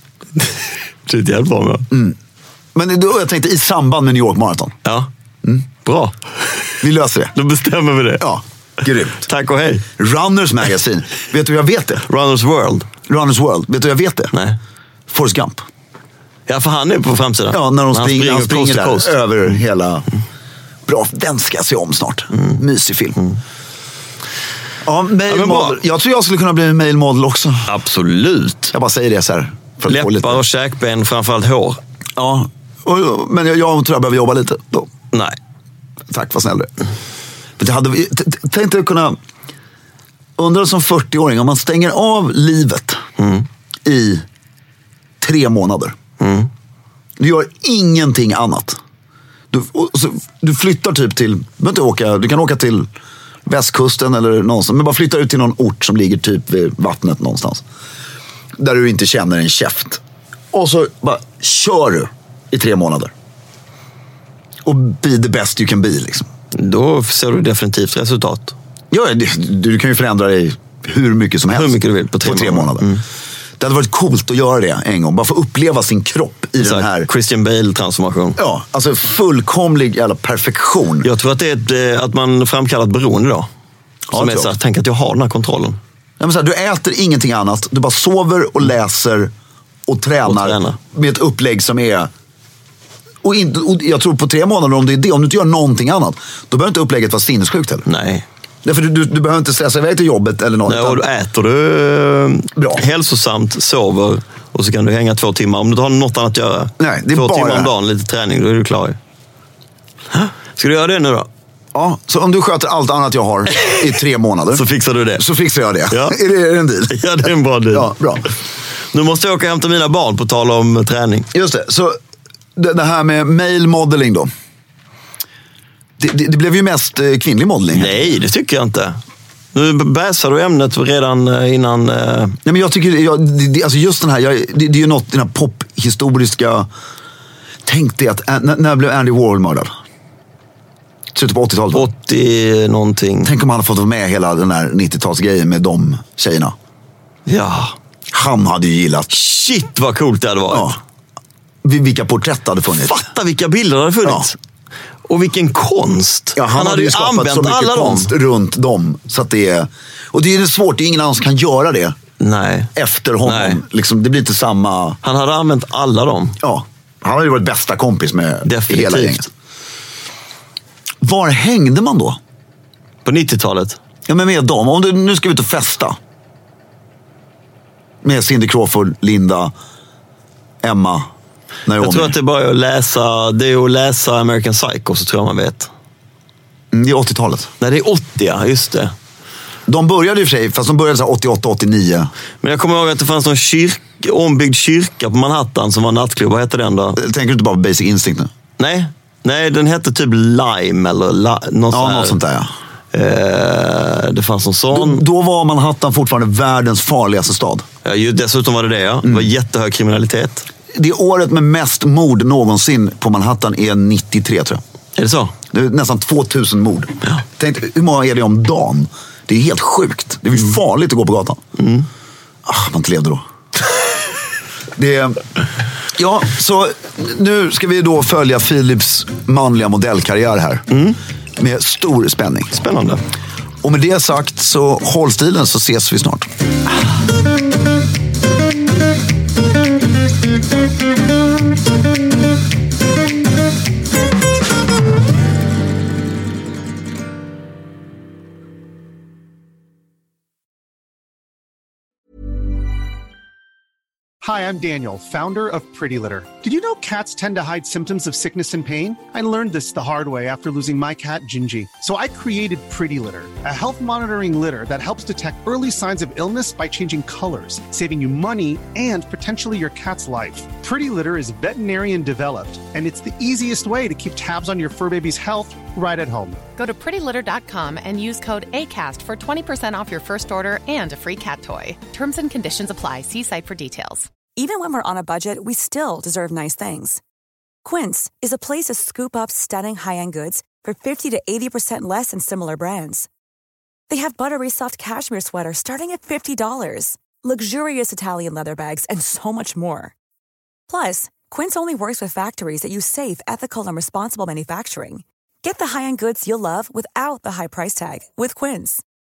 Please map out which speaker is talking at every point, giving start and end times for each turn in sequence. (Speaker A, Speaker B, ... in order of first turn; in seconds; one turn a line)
Speaker A: 0.4-1.9
Speaker B: 1.9-2.1
Speaker B: 2.7-4.8
Speaker A: 5.8-6.7
Speaker B: 6.8-7.3
Speaker A: 7.3-8.2
Speaker B: 8.2-9.3
Speaker A: 9.2-9.8
Speaker B: 10.0-12.0
Speaker A: 12.1-12.9
Speaker B: 13.1-14.3
Speaker B: 15.1-15.7
Speaker A: 16.5-19.1
Speaker B: 17.5-20.1
Speaker B: 20.9-23.2
Speaker B: 24.8-27.7
Speaker A: 25.3-25.8
Speaker A: 27.7-28.7
Speaker B: 28.7-30.4
Speaker A: 29.9-31.8
Speaker B: 32.2-34.9
Speaker B: 36.1-36.7
Speaker B: 37.6-39.1
Speaker B: 40.4-43.0
Speaker A: 43.2-43.4
Speaker B: 43.8-44.2
Speaker B: 45.2-46.0
Speaker A: 46.2-46.5
Speaker B: 47.2-48.8
Speaker B: 49.5-52.9
Speaker B: 53.5-57.6
Speaker B: 58.6-60.0
Speaker B: 60.5-63.1
Speaker B: 64.6-66.3
Speaker A: 66.5-68.5
Speaker B: 68.9-72.9
Speaker A: 71.5-73.0
Speaker B: 73.6-77.1
Speaker A: 76.6-78.4
Speaker B: 78.4-81.1
Speaker A: 81.0-83.5
Speaker B: 84.1-84.5
Speaker A: 84.1-85.8
Speaker B: 86.2-89.3
Speaker B: 89.9-92.1
Speaker A: 90.2-90.8
Speaker B: 93.2-97.8
Speaker A: 97.8-98.2
Speaker B: 98.6-101.0
Speaker A: 100.7-109.0
Speaker B: 102.5-102.8
Speaker B: 106.8-107.7
Speaker A: 110.1-111.3
Speaker B: 111.7-114.6
Speaker A: 114.5-115.2
Speaker B: 115.2-117.0
Speaker A: 115.9-116.2
Speaker A: 116.9-117.9
Speaker B: 117.7-118.2
Speaker A: 118.9-121.3
Speaker B: 121.3-122.0
Speaker B: 122.6-124.3
Speaker B: 126.0-128.1
Speaker A: 127.7-129.0
Speaker A: 129.5-132.4
Speaker B: 132.4-136.7
Speaker B: 137.7-139.7
Speaker B: 141.1-141.9
Speaker A: 141.7-143.3
Speaker B: 143.2-146.5
Speaker A: 147.3-147.7
Speaker B: 148.1-149.1
Speaker A: 149.1-150.7
Speaker B: 150.5-150.8
Speaker B: 151.6-153.0
Speaker A: 152.8-154.3
Speaker A: 155.1-158.1
Speaker B: 156.3-161.9
Speaker A: 162.2-162.7
Speaker B: 162.7-165.0
Speaker A: 163.2-163.6
Speaker A: 165.0-166.4
Speaker B: 166.4-169.2
Speaker A: 168.4-169.3
Speaker B: 171.0-172.2
Speaker A: 173.0-173.8
Speaker B: 174.1-176.0
Speaker B: 178.0-179.5
Speaker B: 180.6-181.1
Speaker B: 181.7-182.2
Speaker A: 181.8-185.7
Speaker B: 186.7-187.5
Speaker A: 187.6-188.9
Speaker B: 189.7-192.1
Speaker A: 192.4-197.0
Speaker B: 197.0-198.3
Speaker A: 198.6-202.2
Speaker B: 201.7-202.5
Speaker A: 202.9-205.0
Speaker B: 204.7-207.7
Speaker A: 207.8-210.5
Speaker B: 209.0-209.3
Speaker B: 210.7-214.6
Speaker A: 214.9-215.3
Speaker B: 215.5-221.4
Speaker A: 221.6-221.9
Speaker B: 222.4-223.2
Speaker B: 224.8-225.2
Speaker B: 225.9-230.7
Speaker A: 230.7-231.0
Speaker B: 231.4-232.6
Speaker A: 232.5-233.0
Speaker B: 233.6-236.3
Speaker C: 254.2-276.4
Speaker D: 276.6-284.1
Speaker E: 284.4-287.0
Speaker E: 287.6-293.1
Speaker E: 293.9-299.9
Speaker E: 300.7-308.8